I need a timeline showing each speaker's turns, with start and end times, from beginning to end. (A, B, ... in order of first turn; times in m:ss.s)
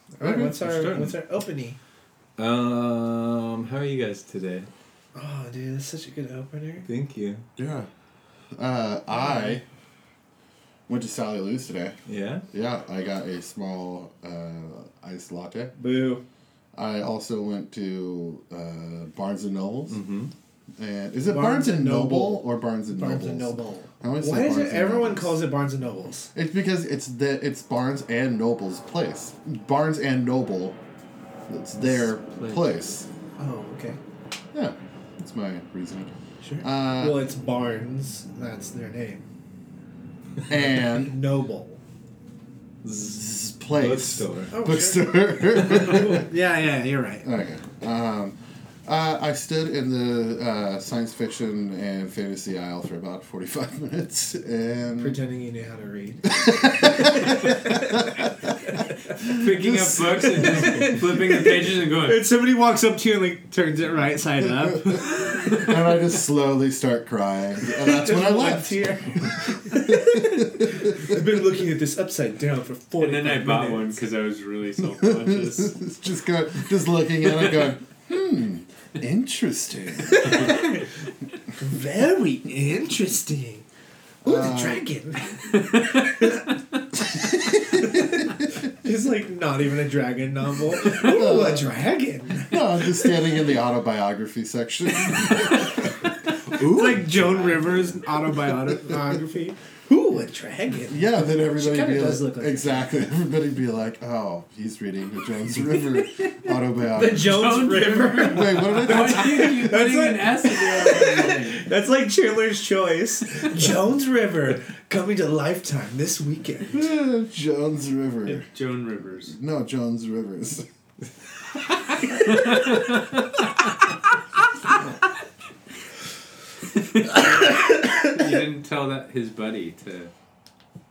0:00.2-0:01.8 A
0:00.2-0:00.7 B
0:00.6-0:01.2 C
0:02.4-0:04.7 C
0:05.1-0:06.9 A
0:06.8-0:07.4 C
0:07.6-0:07.9 B
0:08.5-0:09.6 B
0:10.9-0:12.0 B
0:12.0-0:12.4 C
0:12.5-0:15.7 B
0:15.8-0:16.2 A
0:16.7-0:20.0 B
0:19.9-0:20.3 C
0:20.8-0:25.4 B
0:21.3-0:26.3 A
0:26.3-0:30.8 B
0:31.5-0:33.1 B
0:33.4-0:34.0 A
0:34.5-0:37.2 B
0:36.4-0:39.2 A
0:40.5-0:41.1 B
0:40.7-0:41.8 A
0:42.8-0:44.5 C
0:43.0-0:46.3 B
0:44.5-0:47.3 A
0:47.2-0:55.2 B
0:55.0-0:58.8 A
0:56.3-0:58.5 B
0:59.3-1:02.2 D
0:59.4-1:00.0 B
0:59.6-1:05.6 A
1:05.6-1:11.1 B
1:07.7-1:14.0 A
1:13.0-1:15.8 D
1:14.8-1:20.5 B
1:17.2-1:17.7 D
1:20.0-1:20.9 A
1:21.6-1:23.6 A
1:24.2-1:24.8 B
1:24.2-1:26.4 A
1:25.5-1:26.4 D
1:27.1-1:33.1 A
1:27.4-1:28.3 B
1:30.8-1:31.7 B
1:32.4-1:39.1 B
1:35.0-1:42.9 A
1:40.9-1:47.6 B
1:46.9-1:56.8 A
1:47.2-1:51.6 D
1:48.2-1:49.5 B
1:56.7-1:58.5 B
1:58.2-1:59.4 D
1:59.3-2:00.6 B
2:01.9-2:03.5 D
2:07.0-2:10.1 D
2:07.0-2:08.4 A